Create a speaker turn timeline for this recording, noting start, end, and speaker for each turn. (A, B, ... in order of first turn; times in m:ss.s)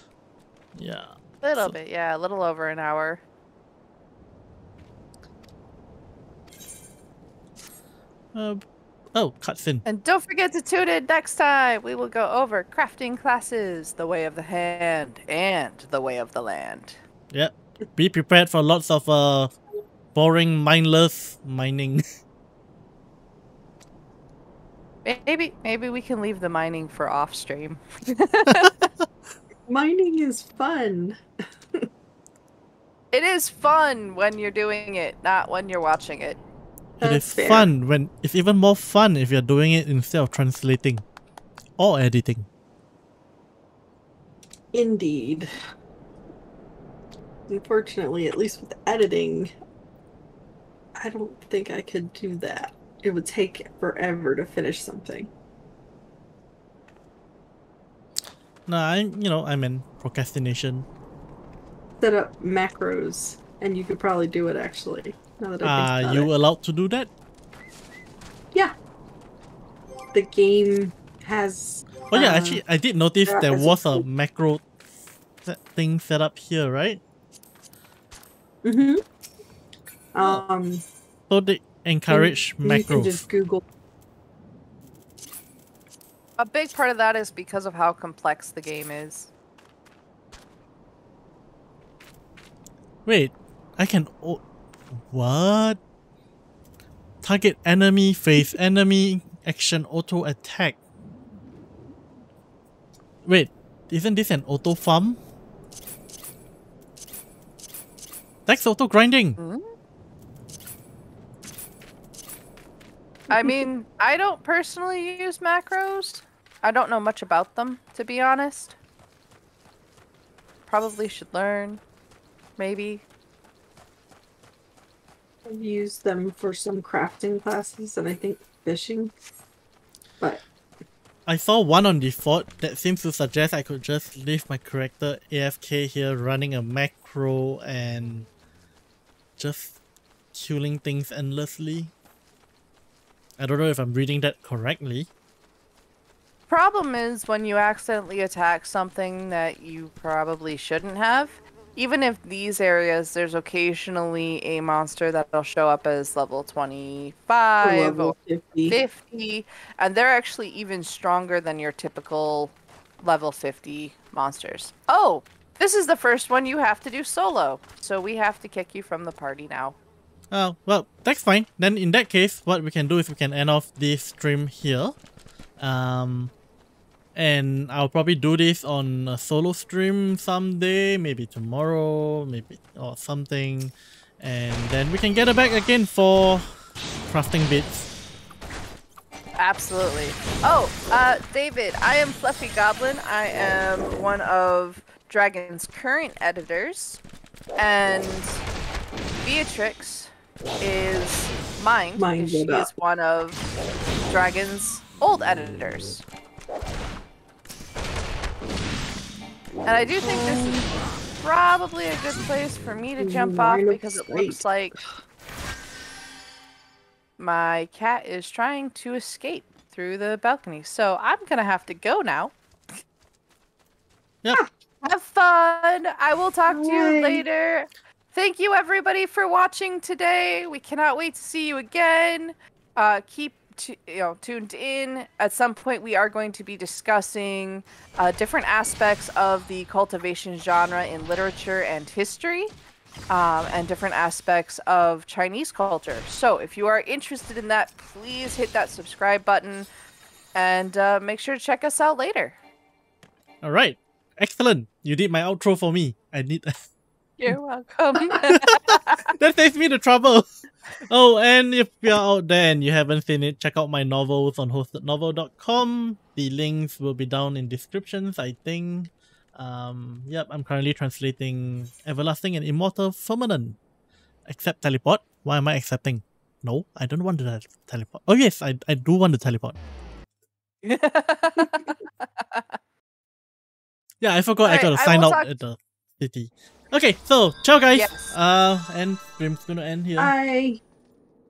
0:00.7-0:01.8 A
0:01.4-0:03.2 B
0:08.3-0:08.6 A
0:09.1-0:09.8 A
0:09.8-0:17.0 B
0:17.3-0:19.5 A
0:20.1-0:22.0 A
0:25.0-0:28.9 B
0:29.7-0:31.2 C
0:33.1-0:36.4 B
0:37.0-0:41.0 A
0:37.0-0:37.7 C
0:41.8-0:42.5 A
0:44.7-0:45.5 C
0:47.5-0:49.5 C
0:51.0-0:55.3 C
0:58.7-1:00.9 A
1:02.0-1:06.3 C
1:05.6-1:07.1 A
1:10.1-1:12.6 C
1:12.1-1:14.7 A
1:13.3-1:14.0 C
1:15.4-1:17.0 A
1:18.6-1:19.0 C
1:20.1-1:20.8 C
1:21.3-1:23.2 A
1:22.1-1:23.6 C
1:26.4-1:29.3 B
1:33.0-1:35.8 A
1:37.2-1:40.8 A
1:43.2-1:45.2 A
1:48.4-1:49.4 A
1:49.4-1:49.6 B
1:53.3-1:53.6 C
1:53.3-1:58.8 B
2:00.7-2:01.8 B
2:02.6-2:03.0 B
2:05.4-2:09.1 C
2:11.3-2:18.3 A
2:19.4-2:19.8 A
2:20.3-2:21.9 A
2:23.4-2:25.1 A
2:26.5-2:38.1 B
2:37.6-2:38.8 C
2:38.7-2:49.8 B
2:50.3-2:55.0 A
2:55.6-2:56.3 A
2:57.1-3:06.4 A
3:07.1-3:07.9 A
3:09.4-3:17.0 B
3:17.6-3:18.4 B
3:19.2-3:23.4 B
3:22.0-3:22.7 C
3:24.0-3:26.0 B
3:29.7-3:34.7 B
3:30.0-3:30.8 C
3:33.0-3:34.8 C
3:37.2-3:42.8 B
3:44.8-4:02.5 B
3:46.5-3:47.2 C
4:03.1-4:09.7 B
4:10.4-4:12.4 B
4:13.4-4:16.7 A
4:17.2-4:19.1 B
4:18.4-4:20.3 A
4:20.9-4:33.6 A
4:34.3-4:39.6 A
4:40.6-4:42.6 B
4:44.0-4:50.1 A
4:44.4-4:45.3 B
4:47.7-4:48.1 B
4:50.0-4:50.6 C